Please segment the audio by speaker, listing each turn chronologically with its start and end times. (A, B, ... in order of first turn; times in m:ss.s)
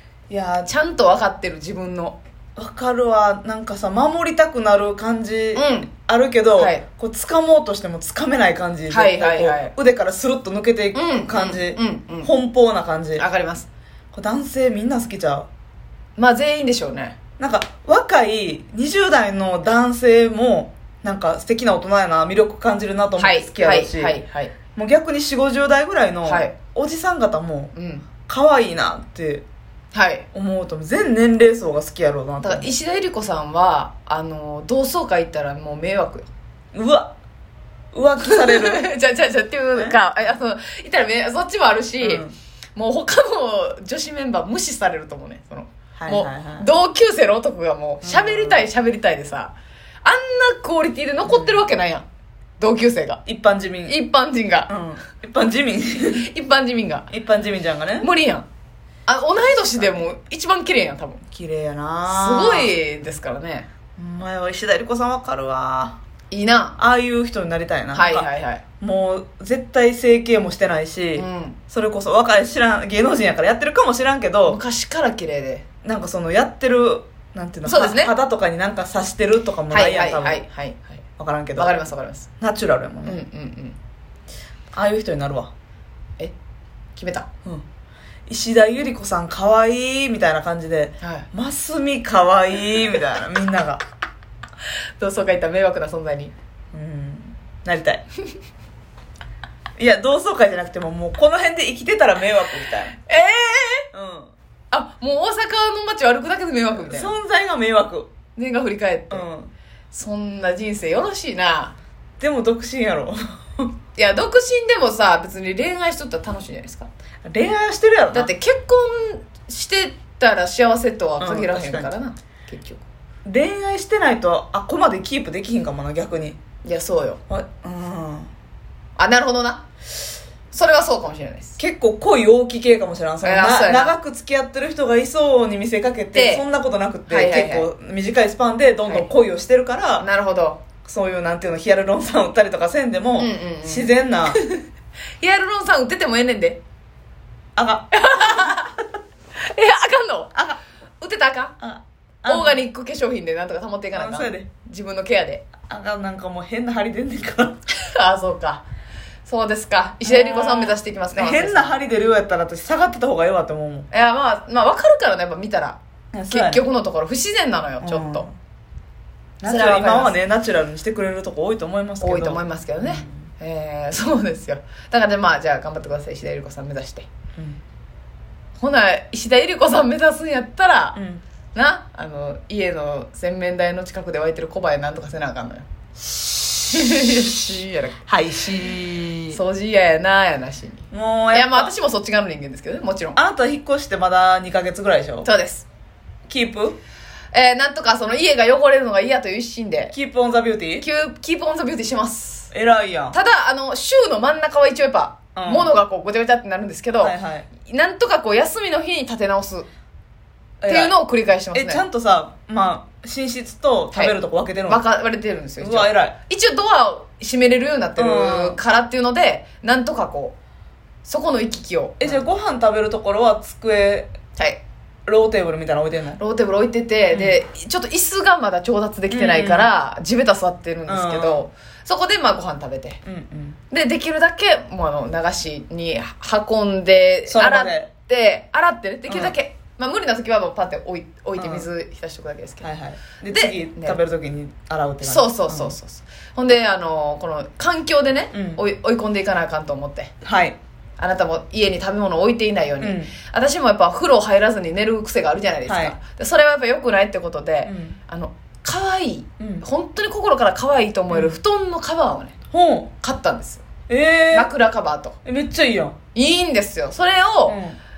0:00.3-0:00.7 A
0:00.7-0:02.2 B
0:02.6-0:13.2 A
0:05.6-0:05.9 B
0:06.6-0:06.8 B
0:08.9-0:09.7 B
0:10.9-0:12.3 B
0:13.2-0:13.7 B
0:14.1-0:15.5 A
0:16.2-0:17.2 B
0:17.4-0:24.2 A
0:23.2-0:24.5 B
0:24.8-0:27.7 A
0:26.3-0:26.5 B
0:27.8-0:28.1 B
0:28.2-0:29.5 A
0:29.9-0:30.3 B
0:30.3-0:32.7 A
0:32.4-0:36.3 B
0:36.7-0:37.2 A
0:37.9-0:38.9 A
0:38.2-0:42.2 B
0:42.0-0:42.4 A
0:42.8-0:52.0 B
0:46.0-0:46.7 A
0:48.0-0:48.7 A
0:51.3-0:51.7 A
0:52.6-0:53.2 B
0:53.3-0:54.0 A
0:53.9-0:54.7 B
0:54.7-0:56.3 A
0:56.2-0:57.1 B
0:57.1-0:58.1 A
0:58.0-0:58.5 B
0:59.1-1:01.2 B
1:01.3-1:02.7 A
1:02.1-1:03.7 B
1:04.0-1:06.0 A
1:06.3-1:06.8 B
1:06.8-1:08.3 A
1:07.9-1:08.6 B
1:08.8-1:14.6 A
1:11.2-1:11.6 B
1:14.5-1:15.6 B
1:15.8-1:20.4 A
1:17.6-1:18.1 B
1:19.7-1:21.0 B
1:21.2-1:21.7 A
1:21.6-1:22.3 B
1:22.4-1:23.2 A
1:23.0-1:23.8 B
1:24.7-1:25.5 A
1:27.0-1:27.3 B
1:28.3-1:33.8 A
1:31.0-1:31.3 B
1:35.0-1:36.3 B
1:36.7-1:38.0 A
1:39.8-1:43.0 A
1:43.1-1:43.9 B
1:43.9-1:44.3 A
1:44.7-1:47.1 B
1:46.7-1:48.1 A
1:48.4-1:49.3 B
1:49.1-1:49.5 A
1:49.9-1:51.7 B
1:52.2-1:53.7 A
1:54.0-1:56.9 B
1:57.2-1:58.3 A
1:58.1-2:02.8 B
2:01.2-2:01.9 A
2:03.2-2:06.4 A
2:06.6-2:07.2 B
2:07.3-2:08.3 A
2:09.0-2:09.7 B
2:10.5-2:11.6 B
2:11.6-2:20.1 A
2:13.2-2:14.0 B
2:16.1-2:16.4 B
2:17.1-2:17.7 B
2:20.0-2:20.6 B
2:20.8-2:24.4 A
2:23.2-2:24.6 B
2:25.2-2:26.6 B
2:27.6-2:28.5 A
2:27.9-2:28.8 B
2:29.4-2:30.4 B
2:31.0-2:31.6 B
2:31.6-2:32.6 A
2:32.3-2:35.5 B
2:33.9-2:34.5 A
2:35.7-2:37.6 A
2:37.8-2:38.7 B
2:39.2-2:41.7 B
2:40.0-2:43.9 A
2:43.9-2:45.8 B
2:46.1-2:46.6 A
2:46.3-2:48.3 B
2:47.8-2:48.3 A
2:49.4-2:53.2 A
2:49.4-2:50.2 B
2:52.0-2:57.1 B
2:57.4-2:57.6 A
2:58.6-3:01.0 B
3:01.0-3:01.2 A
3:01.5-3:05.7 B
3:06.1-3:07.2 A
3:06.7-3:08.0 B
3:08.1-3:09.4 A
3:09.3-3:13.2 B
3:10.9-3:11.7 A
3:13.2-3:15.3 A
3:15.2-3:15.7 B
3:16.3-3:16.8 A
3:17.3-3:19.9 B
3:19.9-3:20.9 A
3:20.8-3:22.5 B
3:22.5-3:23.2 A
3:23.1-3:29.7 B
3:25.4-3:25.7 A
3:27.0-3:27.5 A
3:30.6-3:31.0 A
3:30.7-3:31.8 B
3:31.5-3:34.8 A
3:34.7-3:40.4 B
3:35.6-3:36.2 A
3:38.0-3:38.6 A
3:41.0-3:42.2 B
3:42.0-3:44.1 A
3:45.1-3:46.2 A
3:46.2-3:53.0 B
3:47.1-3:47.4 A
3:49.1-3:49.7 A
3:50.9-3:51.5 A
3:53.0-3:53.6 A
3:53.7-4:02.7 B
3:57.3-3:57.9 A
3:59.1-3:59.4 A
4:01.4-4:01.7 A
4:02.6-4:05.8 A
4:03.3-4:04.0 B
4:05.0-4:10.1 B
4:08.3-4:08.6 A
4:10.2-4:10.6 A
4:11.0-4:22.4 B
4:12.8-4:13.1 A
4:15.7-4:16.0 A
4:17.7-4:18.0 A
4:19.4-4:19.6 A
4:21.1-4:21.4 A
4:22.5-4:22.9 A
4:23.0-4:23.6 B
4:23.9-4:24.5 A
4:24.3-4:25.2 B
4:25.2-4:26.0 A
4:26.2-4:27.6 B
4:27.5-4:27.8 A